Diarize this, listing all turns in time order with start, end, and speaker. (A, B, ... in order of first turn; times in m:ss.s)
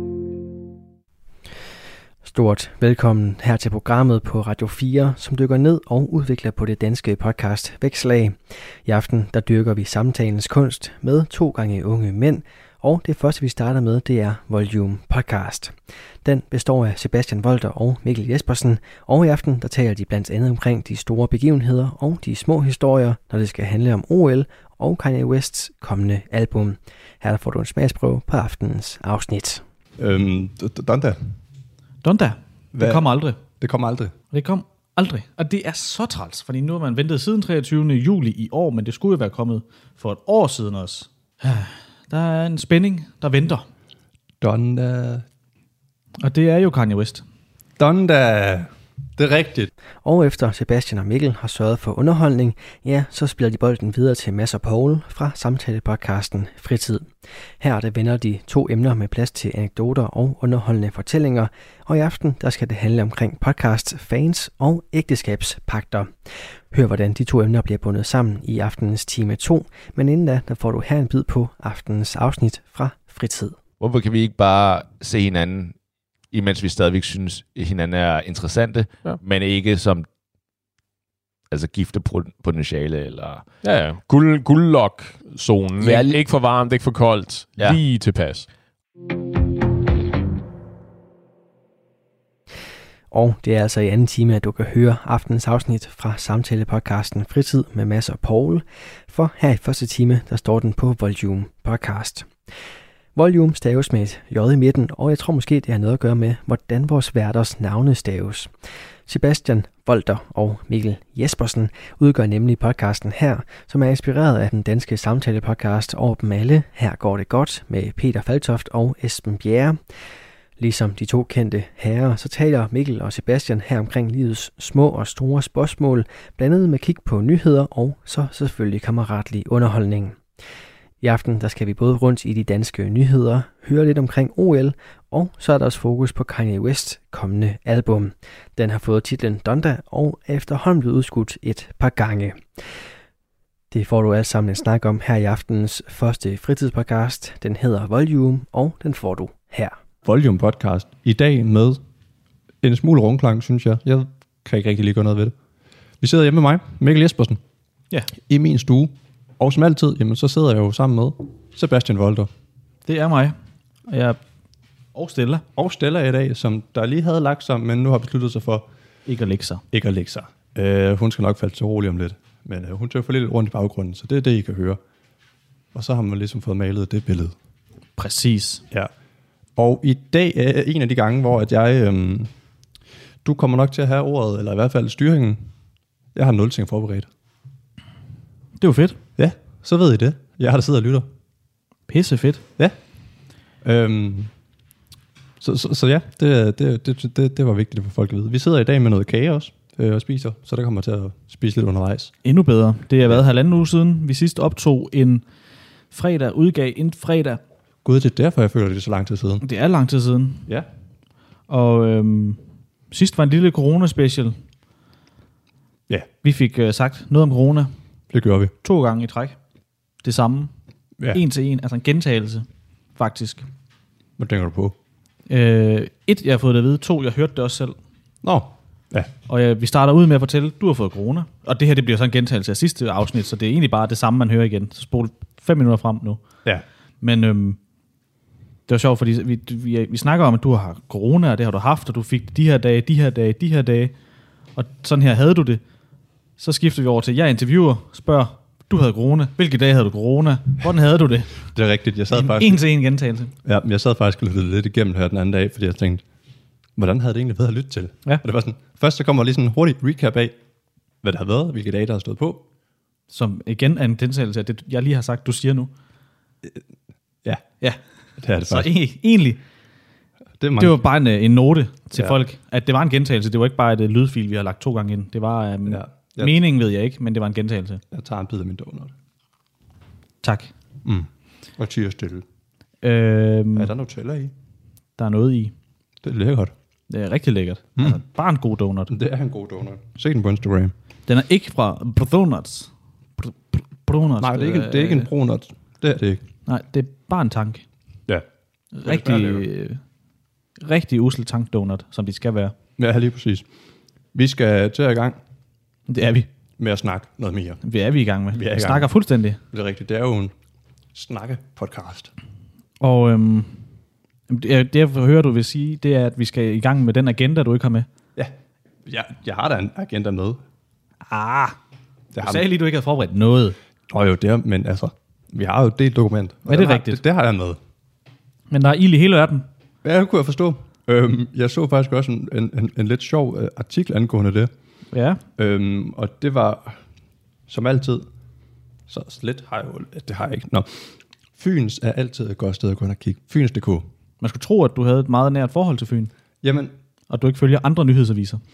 0:02.2-0:29.6 A
0:30.0-0:31.3 B
0:32.0-0:33.4 C
0:32.7-0:34.1 B
0:34.3-0:43.6 C
0:44.4-0:45.2 B
0:46.2-0:47.2 C
0:47.8-0:49.7 B
0:50.0-0:57.1 A
0:57.6-1:06.1 A
1:06.7-1:13.6 A
1:13.8-1:15.8 D
1:16.3-1:20.1 D
1:21.5-1:23.6 D
1:23.6-1:28.5 E
1:25.8-1:26.3 D
1:27.6-1:27.8 D
1:33.1-1:42.3 A
1:43.2-1:48.5 A
1:49.1-1:59.8 A
2:00.6-2:10.2 A
2:11.0-2:22.4 A
2:23.7-2:29.8 A
2:30.0-2:31.8 B
2:32.6-2:35.3 B
2:36.0-2:37.4 B
2:38.3-2:42.3 B
2:42.8-2:43.4 C
2:43.9-2:44.2 C
2:44.9-2:45.4 C
2:45.6-2:48.7 B
2:49.1-2:49.6 C
2:49.7-2:54.8 B
2:55.7-2:57.3 B
2:58.0-2:58.6 C
2:59.6-3:02.3 B
3:03.2-3:05.4 B
3:06.1-3:07.1 B
3:08.6-3:09.0 C
3:09.2-3:11.1 B
3:11.9-3:12.4 C
3:13.6-3:14.3 B
3:15.4-3:22.1 B
3:22.2-3:25.2 C
3:25.9-3:27.4 C
3:27.8-3:29.4 B
3:29.4-3:30.4 C
3:31.5-3:34.4 C
3:36.2-3:37.7 C
3:38.1-3:38.5 B
3:38.6-3:39.4 C
3:40.0-3:40.5 C
3:41.1-3:43.4 C
3:44.2-3:44.8 B
3:45.3-3:47.8 C
3:48.2-3:49.1 B
3:49.3-3:56.2 C
3:57.0-3:57.6 C
3:58.7-4:03.9 C
4:04.6-4:05.6 C
4:06.4-4:11.4 C
4:11.5-4:12.6 B
4:12.1-4:13.3 C
4:13.4-4:16.0 B
4:16.8-4:20.3 B
4:21.0-4:22.4 B
4:23.1-4:25.7 C
4:28.2-4:28.7 B
4:28.4-4:29.4 C
4:30.4-4:30.8 B
4:30.6-4:37.8 C
4:35.7-4:36.4 B
4:37.9-4:38.9 B
4:40.2-4:40.5 C
4:40.8-4:42.2 B
4:42.8-4:43.7 C
4:43.6-4:44.3 B
4:45.0-4:45.5 C
4:46.0-4:46.5 B
4:46.9-4:48.9 C
4:48.9-4:50.7 B
4:51.1-4:55.1 C
4:54.2-4:56.2 B
4:56.4-4:57.6 C
4:58.8-4:59.8 C
4:58.8-4:59.5 B
5:00.6-5:02.5 C
5:02.8-5:03.4 B
5:04.1-5:05.2 B
5:05.9-5:06.3 C
5:06.6-5:07.6 B
5:07.6-5:09.4 C
5:08.3-5:08.9 B
5:09.5-5:10.3 B
5:10.9-5:12.1 B
5:12.8-5:13.6 C
5:14.3-5:17.9 C
5:18.9-5:20.4 B
5:21.1-5:21.6 C
5:22.1-5:22.4 B
5:22.2-5:23.6 C
5:23.9-5:27.6 B
5:26.4-5:27.0 C
5:28.5-5:29.4 C
5:29.8-5:34.5 B
5:34.9-5:35.2 C
5:35.4-5:36.8 B
5:37.5-5:38.1 B
5:38.9-5:43.9 B
5:44.2-5:46.1 C
5:46.4-5:46.7 B
5:47.1-5:48.4 C